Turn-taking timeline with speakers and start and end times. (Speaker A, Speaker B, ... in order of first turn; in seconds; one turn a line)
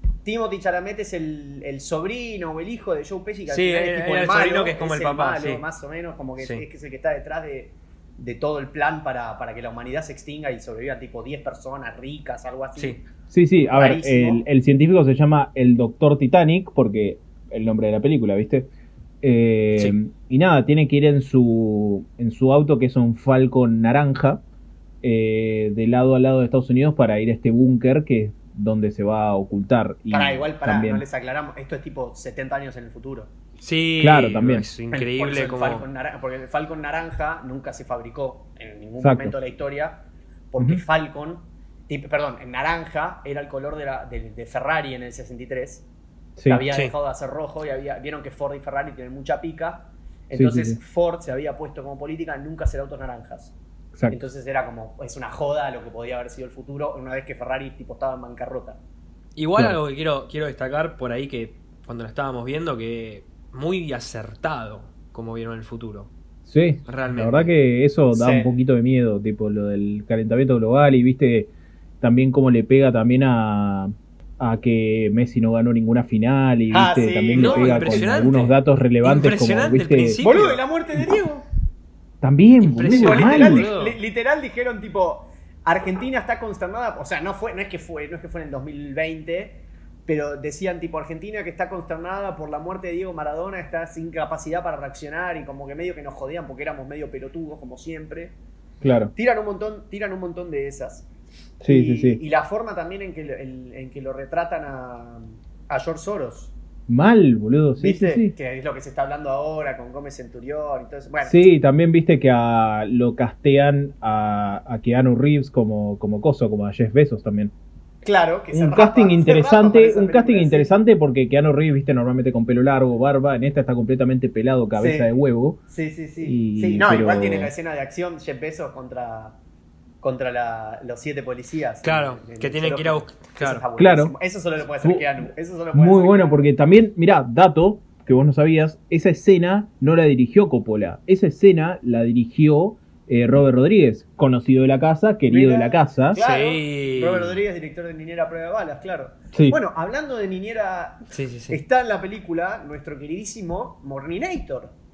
Speaker A: 0.2-13.0
Speaker B: 3.5-5.6
Speaker B: 12.8-13.0
Speaker C: 13.3-18.7
Speaker A: 13.7-14.4
Speaker C: 19.2-24.4
Speaker C: 25.0-31.0
Speaker A: 30.1-33.3
Speaker B: 33.6-35.8
Speaker C: 34.0-34.7
Speaker A: 34.9-45.9
Speaker C: 39.0-39.3
Speaker C: 46.4-46.6
Speaker A: 46.5-53.5
Speaker C: 50.3-50.8
Speaker C: 53.9-54.2
Speaker A: 54.1-58.8
Speaker B: 59.4-66.1
Speaker C: 66.4-71.5
Speaker B: 66.8-67.5
Speaker A: 68.1-68.5
Speaker C: 72.0-80.2
Speaker A: 76.7-78.3
Speaker B: 77.4-80.6
Speaker A: 80.2-81.5
Speaker C: 82.2-83.7
Speaker B: 82.6-84.0
Speaker A: 83.0-98.3
Speaker C: 98.8-99.1
Speaker A: 99.1-101.1
Speaker C: 101.6-102.2
Speaker A: 101.6-106.5
Speaker C: 106.9-108.3
Speaker A: 107.8-111.5
Speaker C: 111.2-117.5
Speaker A: 118.0-120.7
Speaker C: 118.5-125.6
Speaker A: 124.7-125.1
Speaker A: 125.7-129.4
Speaker C: 126.2-127.5
Speaker A: 130.0-136.4
Speaker B: 131.8-133.6
Speaker C: 133.8-134.1
Speaker C: 134.8-146.2
Speaker A: 145.3-154.7
Speaker B: 146.1-147.4
Speaker C: 149.3-149.6
Speaker B: 151.1-151.6